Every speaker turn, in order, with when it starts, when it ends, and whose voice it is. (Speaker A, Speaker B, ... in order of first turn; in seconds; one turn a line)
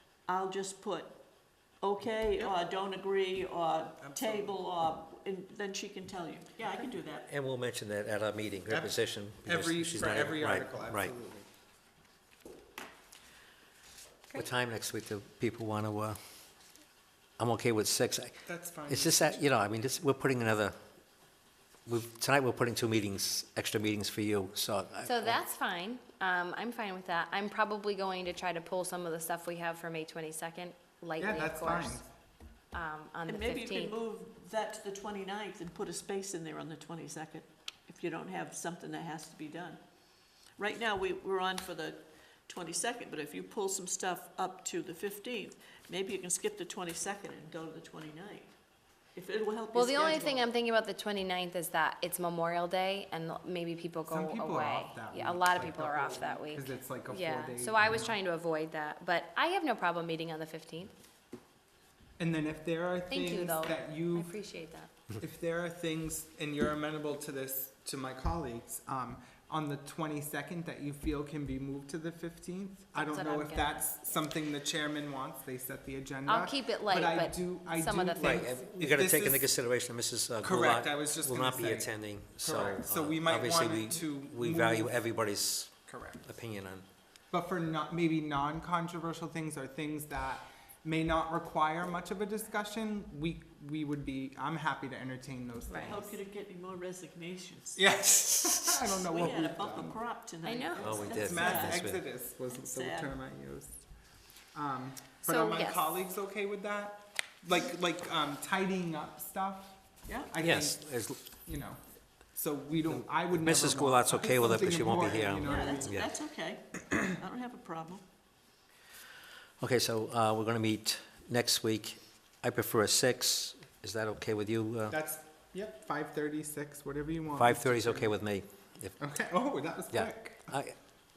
Speaker A: 0.3-1.2
Speaker A: 1.8-7.3
Speaker B: 4.0-4.5
Speaker C: 7.3-11.1
Speaker B: 8.7-11.5
Speaker C: 14.3-16.2
Speaker C: 17.4-20.7
Speaker B: 18.5-19.4
Speaker C: 21.9-25.4
Speaker D: 25.0-32.0
Speaker B: 31.2-32.0
Speaker D: 32.7-34.0
Speaker A: 33.3-39.8
Speaker A: 40.6-48.5
Speaker A: 49.1-50.5
Speaker D: 49.7-60.9
Speaker B: 54.1-58.2
Speaker B: 62.2-64.3
Speaker D: 63.1-64.9
Speaker B: 65.2-79.5
Speaker D: 72.9-74.1
Speaker D: 76.2-78.6
Speaker C: 78.2-86.8
Speaker B: 80.4-85.0
Speaker B: 85.9-86.2
Speaker B: 87.3-96.1
Speaker D: 95.7-96.0
Speaker A: 95.8-97.8
Speaker B: 97.8-100.0
Speaker A: 99.0-101.8
Speaker D: 100.4-101.6
Speaker C: 100.8-102.0
Speaker B: 101.1-103.8
Speaker A: 102.5-103.1
Speaker B: 104.5-111.8
Speaker D: 105.3-106.0
Speaker C: 110.4-111.2
Speaker B: 112.3-115.9
Speaker C: 112.9-116.1
Speaker A: 115.4-118.0
Speaker C: 119.6-125.0
Speaker B: 124.9-128.1
Speaker C: 127.3-129.0
Speaker B: 129.0-130.5
Speaker C: 129.9-130.8